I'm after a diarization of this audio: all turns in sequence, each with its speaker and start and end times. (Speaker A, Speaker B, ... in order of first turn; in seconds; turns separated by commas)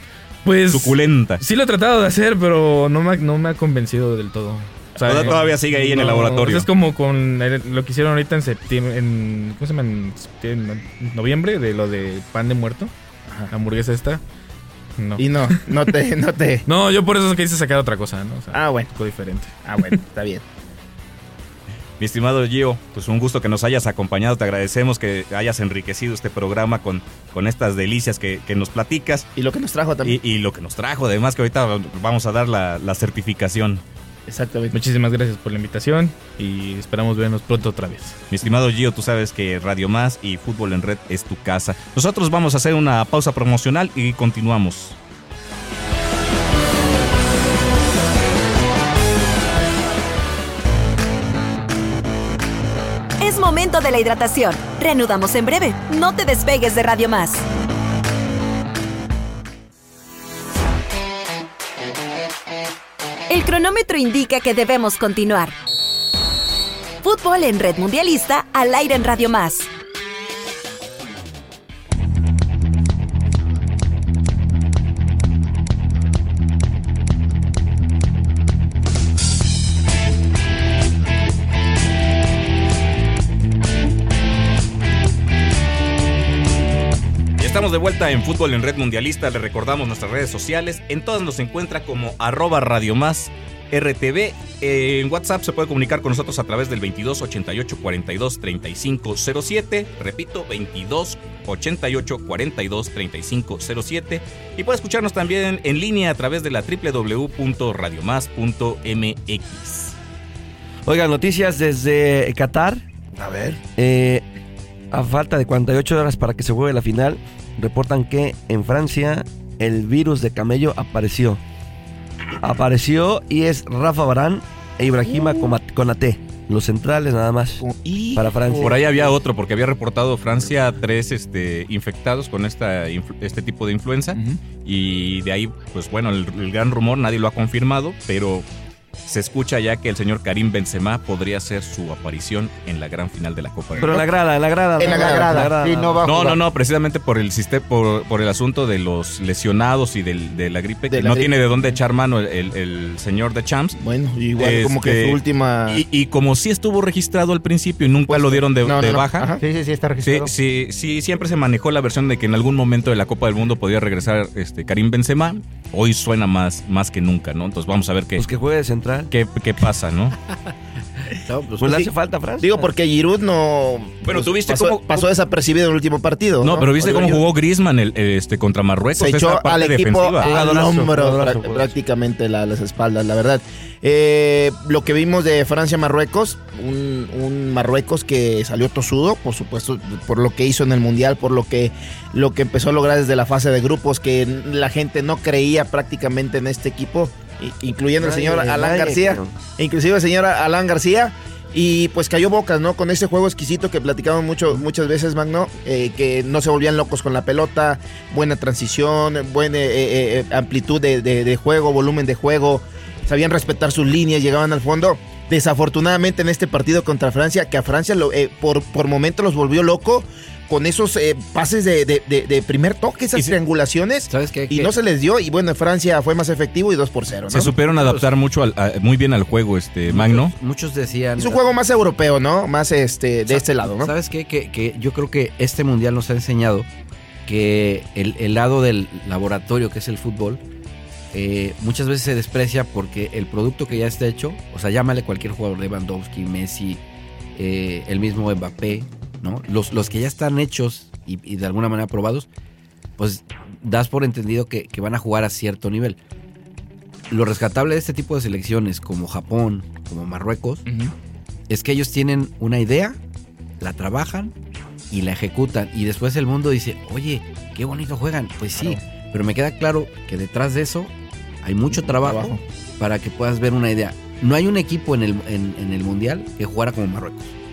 Speaker A: 0.4-12.9, Speaker B: 0.7-1.4, Speaker B: 5.0-6.7, Speaker A: 13.5-14.2, Speaker A: 15.0-15.7, Speaker C: 15.2-16.6, Speaker A: 16.6-20.0, Speaker C: 18.5-18.9, Speaker C: 19.6-20.4, Speaker B: 22.0-29.3, Speaker C: 29.4-30.1, Speaker B: 30.0-33.8, Speaker C: 34.3-34.7, Speaker A: 34.7-38.2, Speaker B: 38.3-45.0, Speaker D: 53.2-57.4, Speaker D: 63.3-65.5, Speaker D: 67.0-69.7, Speaker B: 87.4-109.9, Speaker E: 110.8-112.8, Speaker C: 113.2-113.6, Speaker E: 113.8-114.2, Speaker E: 114.9-121.4, Speaker E: 122.4-127.6, Speaker C: 127.6-128.8, Speaker E: 128.2-128.8, Speaker B: 128.5-138.4, Speaker C: 134.1-134.4, Speaker B: 139.1-144.0, Speaker C: 143.8-144.1, Speaker E: 143.8-146.1, Speaker F: 144.8-146.4, Speaker C: 144.8-145.5, Speaker B: 146.0-153.8, Speaker C: 150.9-151.8, Speaker C: 153.8-155.8, Speaker B: 154.4-159.3, Speaker C: 158.1-159.4, Speaker F: 159.4-160.3, Speaker B: 160.0-168.2, Speaker E: 168.2-169.1, Speaker B: 169.1-170.1, Speaker G: 171.2-171.9, Speaker E: 171.6-172.7, Speaker C: 172.4-177.2, Speaker B: 174.0-175.1, Speaker B: 176.4-180.3, Speaker C: 179.0-227.6, Speaker E: 180.2-181.7, Speaker E: 198.0-199.3, Speaker G: 224.1-224.7, Speaker B: 227.3-230.3, Speaker G: 227.7-228.1, Speaker G: 229.9-231.4, Speaker C: 231.2-233.9, Speaker G: 233.3-236.7, Speaker G: 237.2-240.4, Speaker G: 241.1-246.8, Speaker G: 247.3-252.3, Speaker G: 253.0-256.0, Speaker G: 257.1-260.6, Speaker C: 260.6-260.9, Speaker G: 261.5-263.0, Speaker G: 263.6-264.3, Speaker G: 264.9-270.9, Speaker G: 271.4-277.3, Speaker C: 271.8-272.4